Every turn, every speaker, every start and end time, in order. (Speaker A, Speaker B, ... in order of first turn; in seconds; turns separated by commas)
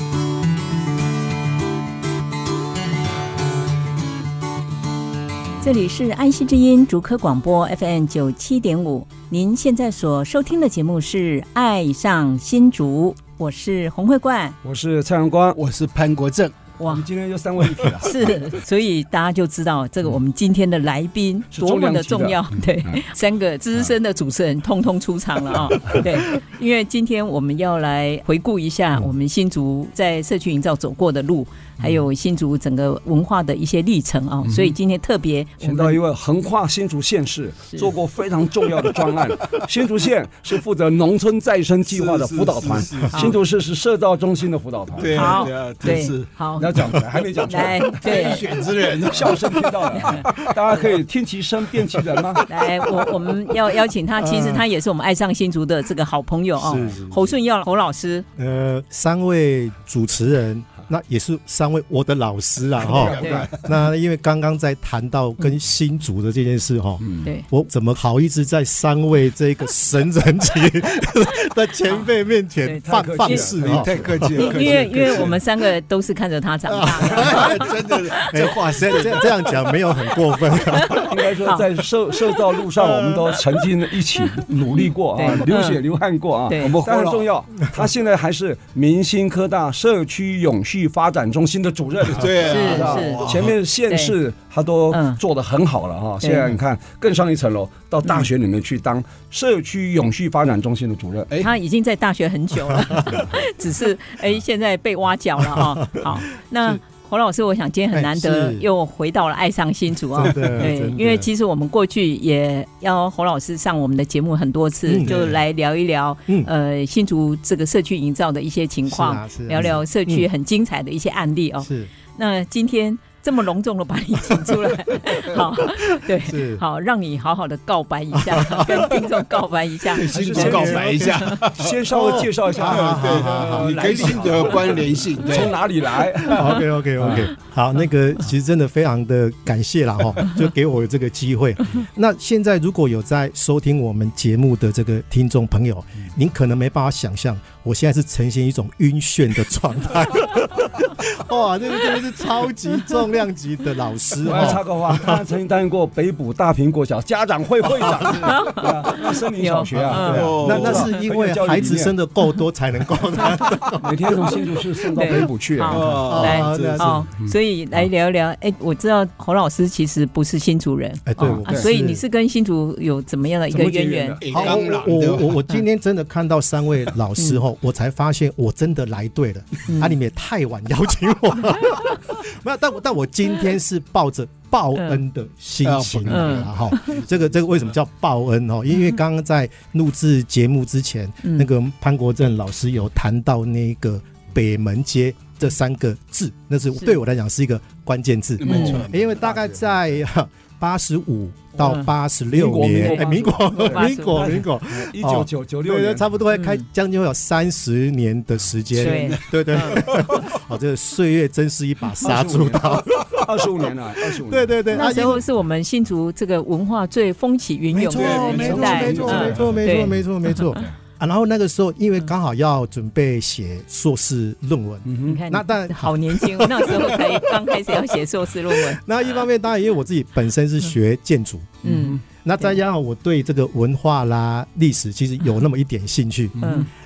Speaker A: 5.6-14.6, Speaker B: 14.6-15.6, Speaker C: 15.5-16.5, Speaker A: 16.8-17.0, Speaker B: 16.9-18.4, Speaker A: 18.0-36.0, Speaker B: 21.5-23.0, Speaker B: 34.4-34.7, Speaker B: 35.6-46.0, Speaker C: 41.9-43.4, Speaker A: 43.1-43.4, Speaker C: 45.0-46.3, Speaker A: 45.1-46.7, Speaker B: 46.6-52.5, Speaker A: 47.5-48.5, Speaker C: 48.0-50.5, Speaker A: 52.5-58.2, Speaker D: 54.2-54.6, Speaker D: 56.6-57.3, Speaker D: 58.4-75.3, Speaker C: 62.8-63.6, Speaker A: 63.0-63.5, Speaker B: 63.2-63.4, Speaker B: 67.0-67.3, Speaker A: 72.6-73.5, Speaker B: 72.8-74.2, Speaker C: 73.6-75.4, Speaker A: 74.3-78.3, Speaker D: 76.7-81.1, Speaker C: 77.2-79.3, Speaker A: 80.8-81.6, Speaker B: 80.9-101.3, Speaker D: 82.7-83.3, Speaker A: 84.8-85.8, Speaker A: 86.5-86.8, Speaker C: 86.6-87.3, Speaker C: 92.1-93.5, Speaker A: 92.5-93.2, Speaker A: 93.9-94.1, Speaker A: 94.9-95.2, Speaker A: 96.2-96.5, Speaker A: 101.4-130.0, Speaker D: 102.8-103.2, Speaker D: 105.4-106.1, Speaker D: 107.9-108.7, Speaker D: 110.1-111.3, Speaker D: 114.8-115.4, Speaker D: 118.9-120.3, Speaker D: 121.6-121.9, Speaker D: 126.0-126.6, Speaker D: 128.1-129.1, Speaker C: 129.9-131.8, Speaker B: 130.1-137.3, Speaker D: 130.1-134.8, Speaker C: 132.5-135.6, Speaker D: 136.3-155.2, Speaker B: 154.2-161.9, Speaker D: 157.6-158.5, Speaker A: 158.2-160.3, Speaker C: 159.7-160.9, Speaker D: 159.9-164.5, Speaker B: 163.7-166.4, Speaker A: 164.9-174.2, Speaker C: 165.7-166.9, Speaker D: 166.1-167.0, Speaker D: 171.1-172.0, Speaker B: 171.2-171.7, Speaker B: 173.5-174.6, Speaker C: 174.2-175.4, Speaker D: 174.2-213.4, Speaker A: 179.7-180.0, Speaker C: 185.6-187.7, Speaker A: 186.1-186.5, Speaker A: 191.2-191.5, Speaker C: 198.4-198.9, Speaker A: 198.5-198.8, Speaker B: 198.8-199.7, Speaker A: 201.6-201.9, Speaker B: 202.3-206.1, Speaker A: 202.8-204.3, Speaker A: 206.3-206.6, Speaker C: 208.7-210.4, Speaker A: 208.7-209.8, Speaker B: 212.0-214.6, Speaker D: 214.0-215.2, Speaker A: 214.7-220.5, Speaker D: 217.7-231.6, Speaker C: 217.9-219.4, Speaker B: 218.5-219.9, Speaker B: 224.8-225.2, Speaker A: 225.0-228.8, Speaker B: 231.6-232.0, Speaker A: 231.6-232.6, Speaker D: 232.2-236.4, Speaker B: 236.4-236.7, Speaker A: 236.4-236.7